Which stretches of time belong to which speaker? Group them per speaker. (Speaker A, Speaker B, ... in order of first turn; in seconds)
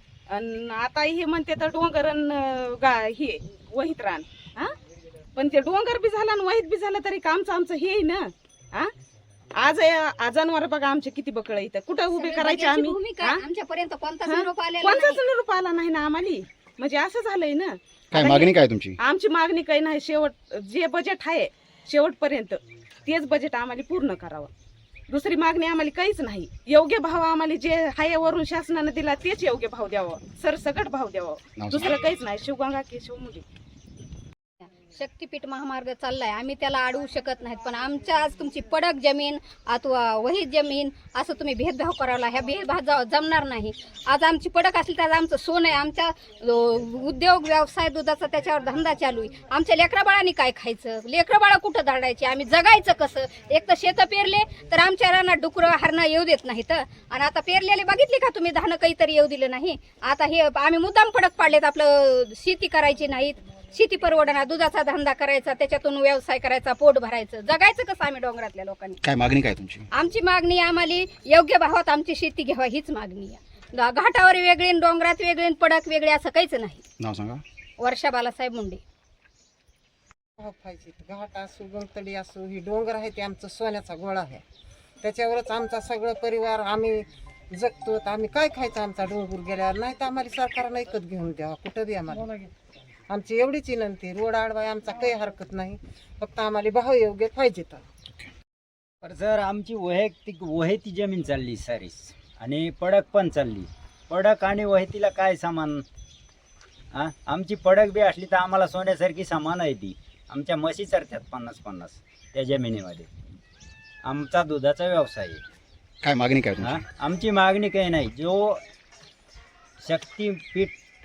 Speaker A: 0.3-4.7, 5.3-8.9, 9.6-13.4, 14.2-24.5, 25.1-33.4
Speaker B: 12.1-15.2, 34.8-69.0, 70.0-76.8, 77.8-78.8
Speaker C: 18.1-18.9, 31.6-31.9, 69.0-69.9, 77.0-77.4, 116.0-116.7
Speaker D: 80.4-84.4, 85.0-92.5, 93.1-97.8
Speaker E: 99.0-105.8, 106.9-113.1, 114.0-115.4, 116.6-118.6, 119.8-120.8